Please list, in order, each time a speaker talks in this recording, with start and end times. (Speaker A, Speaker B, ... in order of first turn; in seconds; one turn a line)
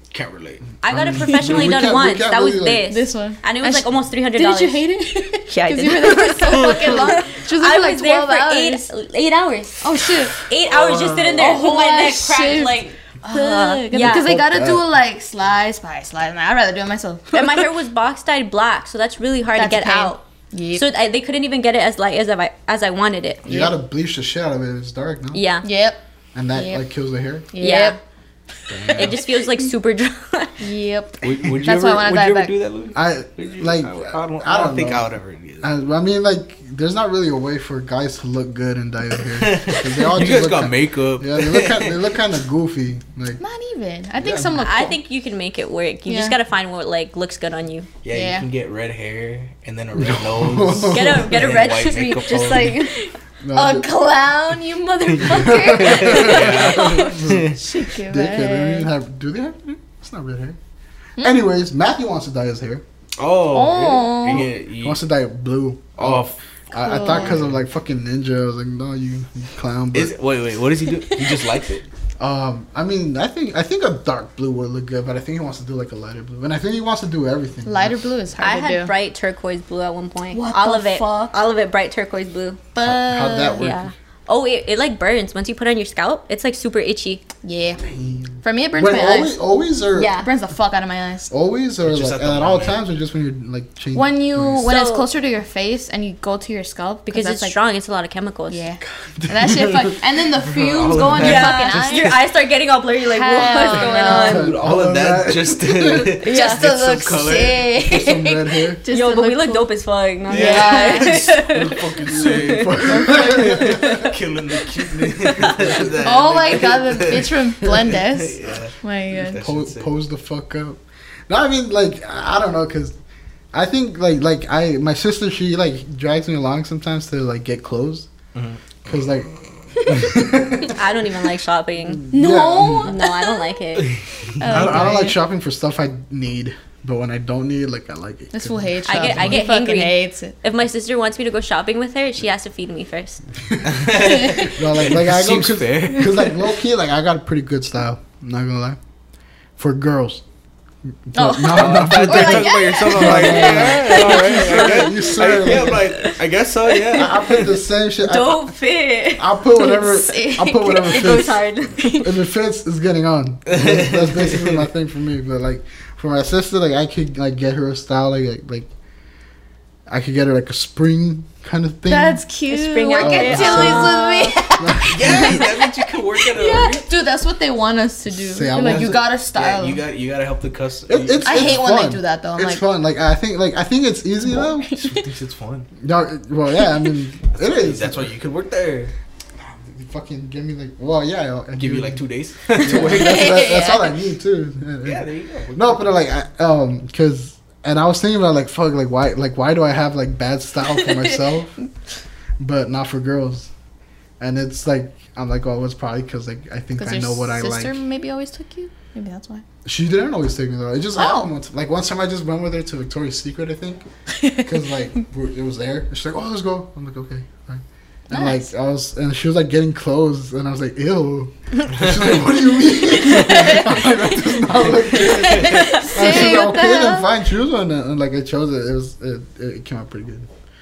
Speaker A: 0.1-0.7
Speaker B: 0.8-4.8
Speaker C: 0.8-2.9
Speaker D: 2.9-8.9
Speaker B: 5.5-14.3
Speaker D: 9.8-10.4
Speaker A: 10.7-11.6
Speaker D: 11.4-17.6
Speaker C: 14.0-14.9
Speaker B: 17.3-20.2
Speaker D: 19.5-20.9
Speaker B: 20.7-23.5
Speaker C: 23.4-25.4
Speaker B: 25.3-25.7
Speaker D: 25.6-26.0
Speaker C: 26.3-27.5
Speaker D: 26.5-26.8
Speaker D: 27.5-28.0
Speaker B: 27.6-28.0
Speaker A: 28.7-29.0
Speaker D: 28.9-29.4
Speaker B: 28.9-30.6
Speaker D: 30.6-32.5
Speaker A: 31.2-35.7
Speaker C: 33.0-35.1
Speaker C: 35.6-43.4
Speaker A: 39.4-42.0
Speaker D: 43.4-45.0
Speaker C: 44.2-44.5
Speaker B: 44.5-47.9
Speaker D: 46.1-46.4
Speaker A: 48.0-52.8
Speaker D: 48.1-48.5
Speaker C: 50.0-51.4
Speaker B: 50.8-53.1
Speaker C: 53.4-53.9
Speaker D: 53.5-58.9
Speaker C: 55.2-60.6
Speaker A: 55.3-57.6
Speaker C: 61.2-62.8
Speaker A: 63.2-65.0
Speaker D: 63.5-64.5
Speaker C: 64.3-70.1
Speaker A: 66.0-66.4
Speaker D: 66.8-67.4
Speaker A: 67.0-67.6
Speaker A: 69.9-71.8
Speaker C: 72.2-78.1
Speaker D: 77.7-78.9
Speaker B: 78.4-82.6
Speaker D: 80.3-81.4
Speaker D: 82.7-83.7
Speaker C: 82.8-83.9
Speaker B: 83.6-87.3
Speaker D: 87.4-87.8
Speaker D: 88.4-89.3
Speaker C: 88.7-90.2
Speaker B: 90.0-90.3
Speaker D: 90.0-91.3
Speaker C: 91.3-94.7
Speaker A: 91.8-92.8
Speaker D: 93.9-97.6
Speaker B: 94.7-95.1
Speaker B: 97.1-98.7
Speaker D: 98.5-102.2
Speaker C: 99.2-99.7
Speaker A: 100.4-102.2
Speaker B: 101.0-104.5
Speaker D: 103.0-104.5
Speaker C: 104.0-106.2
Speaker A: 104.2-107.7
Speaker D: 106.2-109.7
Speaker B: 106.2-106.7
Speaker C: 107.8-108.8
Speaker B: 108.9-114.1
Speaker D: 110.3-111.3
Speaker A: 110.3-119.9
Speaker C: 112.1-113.9
Speaker B: 115.2-115.6
Speaker D: 116.0-119.4
Speaker C: 119.4-123.0
Speaker C: 123.5-128.1
Speaker A: 128.3-129.1
Speaker C: 128.8-129.3
Speaker D: 129.8-130.1
Speaker C: 129.8-130.8
Speaker B: 130.7-132.2
Speaker C: 132.1-132.9
Speaker D: 132.1-133.5
Speaker B: 132.7-133.9
Speaker D: 134.4-135.2
Speaker C: 134.4-139.4
Speaker A: 134.5-134.9
Speaker D: 138.3-140.3
Speaker B: 138.9-143.2
Speaker A: 143.6-146.3
Speaker D: 143.9-144.5
Speaker C: 144.3-148.8
Speaker C: 149.6-150.2
Speaker C: 151.1-155.9
Speaker D: 151.2-154.8
Speaker A: 151.5-157.5
Speaker B: 153.4-154.8
Speaker B: 155.7-156.1
Speaker C: 156.9-158.5
Speaker B: 157.1-157.5
Speaker B: 158.0-159.4
Speaker C: 159.2-168.7
Speaker D: 159.5-161.2
Speaker B: 160.6-162.2
Speaker A: 163.5-164.7
Speaker C: 169.9-172.2
Speaker D: 171.9-179.8
Speaker B: 172.5-174.7
Speaker C: 172.9-174.0
Speaker C: 174.6-175.4
Speaker A: 174.8-176.8
Speaker C: 178.1-179.0
Speaker A: 178.7-181.6
Speaker C: 180.9-184.8
Speaker D: 181.2-182.6
Speaker A: 184.7-185.7
Speaker C: 185.8-188.1
Speaker A: 187.4-188.9
Speaker C: 189.4-201.6
Speaker A: 191.6-193.3
Speaker D: 192.6-194.0
Speaker A: 194.8-195.9
Speaker C: 202.4-203.5
Speaker C: 204.2-207.8
Speaker D: 206.8-209.4
Speaker C: 209.7-213.8
Speaker D: 211.0-211.3
Speaker C: 214.4-230.3
Speaker D: 218.1-218.5
Speaker D: 223.1-223.8
Speaker D: 224.9-227.1
Speaker B: 225.5-225.9